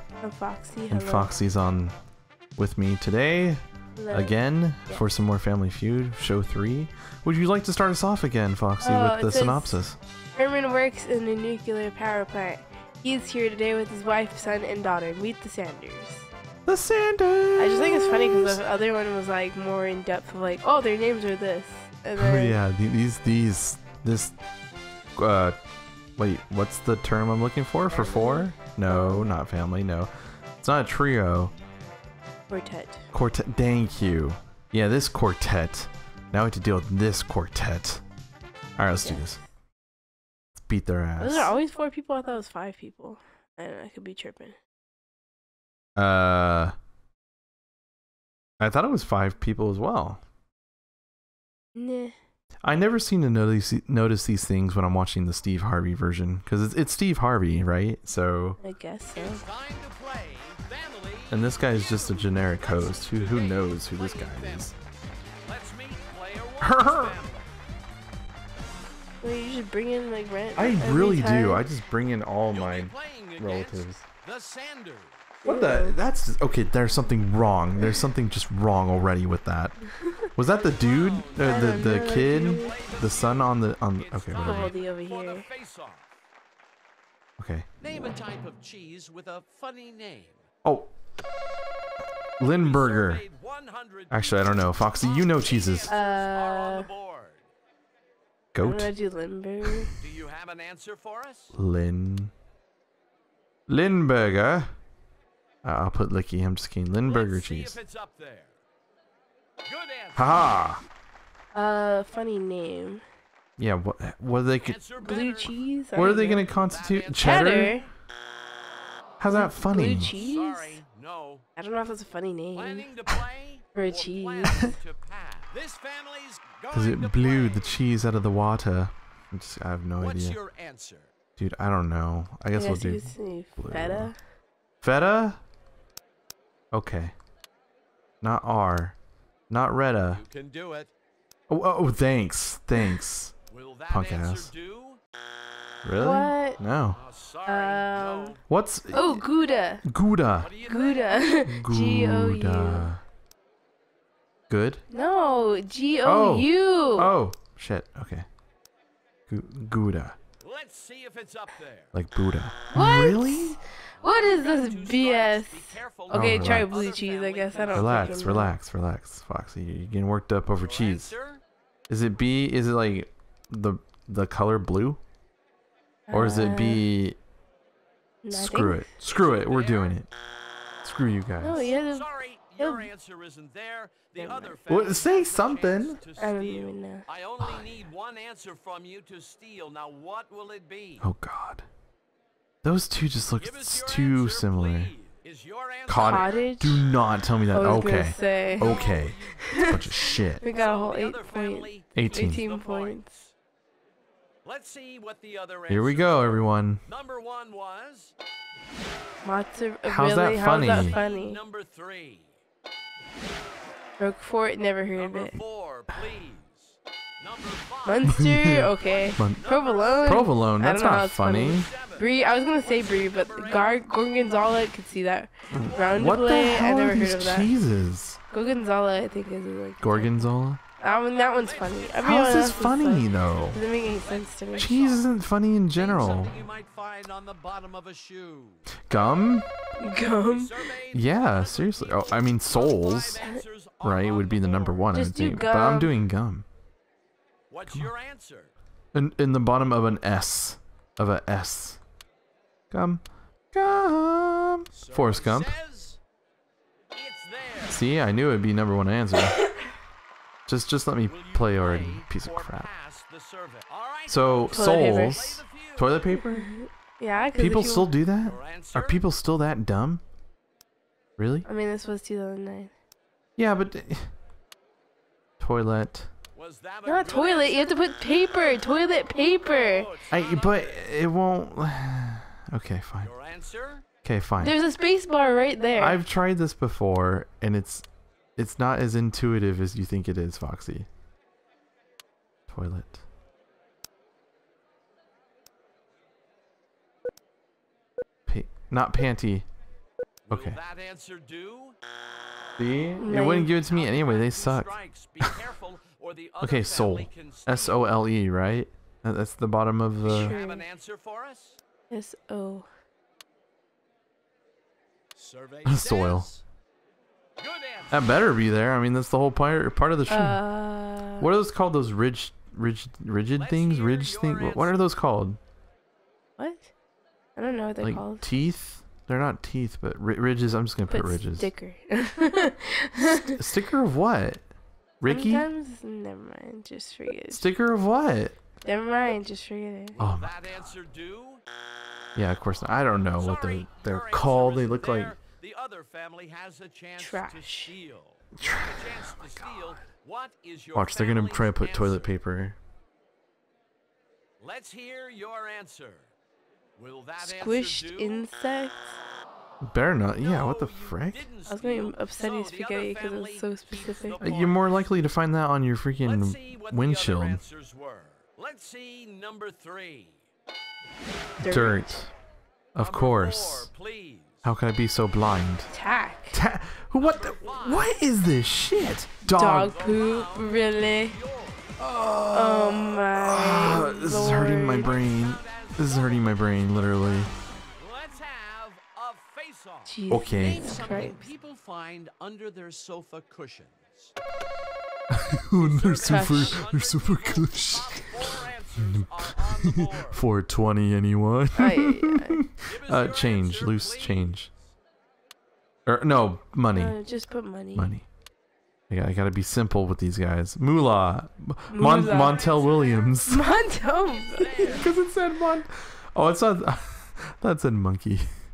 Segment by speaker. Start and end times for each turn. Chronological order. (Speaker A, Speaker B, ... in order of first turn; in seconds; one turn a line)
Speaker A: 0.2-1.3
Speaker B: 0.9-2.0
Speaker B: 2.6-10.0
Speaker A: 4.0-4.4
Speaker A: 8.8-9.8
Speaker A: 10.4-16.3
Speaker B: 16.7-18.6
Speaker A: 17.6-22.6
Speaker B: 22.2-24.4
Speaker B: 25.2-25.6
Speaker B: 26.2-31.5
Speaker A: 27.9-29.3
Speaker A: 32.5-33.1
Speaker B: 33.1-38.0
Speaker B: 38.8-39.4
Speaker A: 39.0-39.5
Speaker B: 40.5-41.5
Speaker A: 41.2-44.6
Speaker B: 46.0-46.8
Speaker B: 48.6-50.2
Speaker A: 51.8-52.2
Speaker B: 52.6-58.6
Speaker A: 58.6-59.4
Speaker C: 59.1-64.7
Speaker B: 61.3-64.7
Speaker C: 65.5-67.5
Speaker B: 66.6-67.2
Speaker A: 69.2-71.7
Speaker B: 70.6-74.0
Speaker C: 72.5-75.3
Speaker A: 75.4-76.0
Speaker B: 75.5-84.8
Speaker A: 77.8-78.0
Speaker A: 80.0-80.3
Speaker C: 80.5-86.1
Speaker A: 81.4-82.8
Speaker A: 84.4-85.5
Speaker B: 87.4-87.7
Speaker C: 87.8-90.4
Speaker B: 90.6-90.9
Speaker B: 92.4-93.2
Speaker C: 92.6-97.4
Speaker B: 94.1-96.0
Speaker A: 95.8-96.9
Speaker B: 98.5-98.9
Speaker A: 98.6-99.9
Speaker C: 100.0-101.5
Speaker B: 101.5-102.3
Speaker B: 103.7-104.7
Speaker B: 105.6-107.8
Speaker C: 107.0-108.5
Speaker C: 109.7-110.5
Speaker B: 110.2-110.8
Speaker A: 111.5-113.0
Speaker B: 113.6-114.8
Speaker C: 114.6-115.6
Speaker A: 115.0-116.5
Speaker B: 116.0-117.8
Speaker C: 116.3-117.5
Speaker A: 117.2-117.9
Speaker B: 119.2-120.1
Speaker A: 119.3-120.8
Speaker C: 119.8-121.5
Speaker A: 121.6-122.9
Speaker C: 122.5-127.8
Speaker A: 123.8-124.8
Speaker B: 126.7-130.4
Speaker C: 130.0-131.1
Speaker B: 131.4-134.1
Speaker A: 132.6-134.2
Speaker B: 134.8-135.4
Speaker B: 136.7-137.1
Speaker B: 138.2-138.9
Speaker B: 139.5-140.2
Speaker C: 140.1-140.9
Speaker B: 141.5-143.3
Speaker C: 143.5-145.0
Speaker B: 143.9-144.5
Speaker B: 145.8-147.0
Speaker A: 146.0-146.6
Speaker C: 147.0-148.4
Speaker A: 147.4-149.8
Speaker B: 148.5-149.2
Speaker B: 149.8-150.5
Speaker C: 150.4-151.4
Speaker A: 150.7-152.9
Speaker B: 151.4-153.0
Speaker B: 154.5-154.9
Speaker A: 154.9-157.1
Speaker B: 156.0-158.3
Speaker B: 159.3-160.2
Speaker C: 160.4-161.9
Speaker B: 161.9-163.6
Speaker A: 162.7-168.5
Speaker C: 164.0-168.3
Speaker B: 166.1-166.7
Speaker B: 167.7-171.1
Speaker C: 170.6-171.4
Speaker B: 171.9-175.0
Speaker A: 176.1-176.8
Speaker B: 176.1-177.2
Speaker A: 178.2-178.9
Speaker B: 178.3-180.1
Speaker C: 179.0-180.0
Speaker B: 180.8-181.7
Speaker A: 181.4-182.9
Speaker C: 181.6-191.1
Speaker A: 184.2-184.6
Speaker B: 184.7-186.0
Speaker A: 186.2-187.1
Speaker B: 187.4-187.7
Speaker B: 191.0-191.7
Speaker B: 192.6-194.9
Speaker C: 193.4-196.5
Speaker B: 195.9-200.4
Speaker A: 196.0-196.9
Speaker A: 197.5-203.1
Speaker C: 198.2-203.3
Speaker B: 201.9-202.4
Speaker C: 204.4-208.1
Speaker B: 205.7-206.8
Speaker A: 209.2-211.4
Speaker B: 209.8-211.0
Speaker C: 210.5-212.4
Speaker A: 214.0-215.4
Speaker C: 215.0-220.3
Speaker A: 217.8-227.5
Speaker B: 218.1-219.4
Speaker B: 220.0-221.7
Speaker C: 221.4-224.5
Speaker B: 225.5-228.2
Speaker C: 225.5-226.2
Speaker A: 228.3-235.0
Speaker B: 229.8-230.6
Speaker C: 231.1-235.2
Speaker B: 232.0-233.6
Speaker B: 234.6-236.3
Speaker C: 235.7-239.0
Speaker B: 238.9-239.5
Speaker A: 239.8-240.7
Speaker C: 239.8-245.0
Speaker B: 240.9-243.2
Speaker A: 243.2-243.4
Speaker B: 243.8-246.5
Speaker A: 244.9-246.0
Speaker C: 247.5-248.5
Speaker B: 248.9-251.8
Speaker B: 252.7-255.6
Speaker C: 254.7-256.0
Speaker C: 256.9-257.8
Speaker B: 257.7-259.4
Speaker A: 259.4-259.7
Speaker B: 260.5-262.7
Speaker C: 261.1-266.0
Speaker B: 264.1-266.5
Speaker A: 264.5-265.2
Speaker A: 266.1-268.0
Speaker B: 267.4-270.0
Speaker C: 268.2-269.0
Speaker B: 271.2-271.5
Speaker A: 271.5-272.7
Speaker B: 273.4-274.1
Speaker B: 275.4-276.1
Speaker C: 276.4-277.8
Speaker A: 276.9-279.9
Speaker C: 279.3-280.9
Speaker B: 280.1-283.1
Speaker C: 283.0-283.9
Speaker B: 284.0-284.6
Speaker A: 284.4-286.0
Speaker B: 285.8-287.9
Speaker B: 288.4-290.9
Speaker B: 292.5-293.0
Speaker B: 298.3-299.5
Speaker C: 300.3-301.8
Speaker B: 300.3-300.6
Speaker B: 302.6-304.7
Speaker A: 303.0-303.6
Speaker C: 303.5-307.9
Speaker B: 306.4-310.4
Speaker A: 310.1-310.7
Speaker C: 310.1-311.6
Speaker A: 311.9-312.7
Speaker C: 315.2-316.4
Speaker B: 315.6-316.3
Speaker C: 317.4-318.1
Speaker B: 317.9-320.4
Speaker A: 320.1-321.3
Speaker B: 321.2-325.4
Speaker C: 323.4-324.9
Speaker A: 326.4-326.7
Speaker A: 327.4-328.3
Speaker B: 327.8-331.5
Speaker A: 330.9-333.4
Speaker B: 333.0-334.5
Speaker B: 335.0-335.4
Speaker A: 335.1-337.5
Speaker B: 337.3-338.4
Speaker A: 338.6-340.0
Speaker C: 340.0-341.4
Speaker B: 340.0-340.5
Speaker B: 342.2-345.1
Speaker C: 342.9-352.1
Speaker A: 347.0-347.8
Speaker B: 348.4-349.8
Speaker B: 350.7-352.6
Speaker C: 354.4-356.1
Speaker C: 356.8-358.3
Speaker A: 357.2-359.0
Speaker B: 359.6-361.3
Speaker C: 360.2-364.9
Speaker A: 361.5-364.2
Speaker B: 364.2-367.4
Speaker C: 366.0-370.2
Speaker A: 371.4-371.9
Speaker B: 371.4-372.1
Speaker B: 372.7-373.7
Speaker C: 372.8-374.5
Speaker B: 374.4-375.7
Speaker A: 375.7-376.4
Speaker B: 376.3-379.8
Speaker C: 376.9-378.0
Speaker A: 379.3-381.2
Speaker C: 379.6-381.9
Speaker B: 381.8-387.3
Speaker A: 382.3-385.0
Speaker C: 384.7-394.1
Speaker A: 389.9-391.3
Speaker B: 390.1-390.8
Speaker B: 395.1-404.5
Speaker C: 395.6-400.2
Speaker A: 396.1-396.7
Speaker A: 401.6-402.4
Speaker C: 402.6-404.5
Speaker B: 405.9-407.0
Speaker A: 406.7-407.9
Speaker B: 407.8-408.1
Speaker B: 408.9-413.5
Speaker A: 411.7-412.5
Speaker C: 412.0-414.9
Speaker A: 413.2-414.9
Speaker B: 414.6-418.3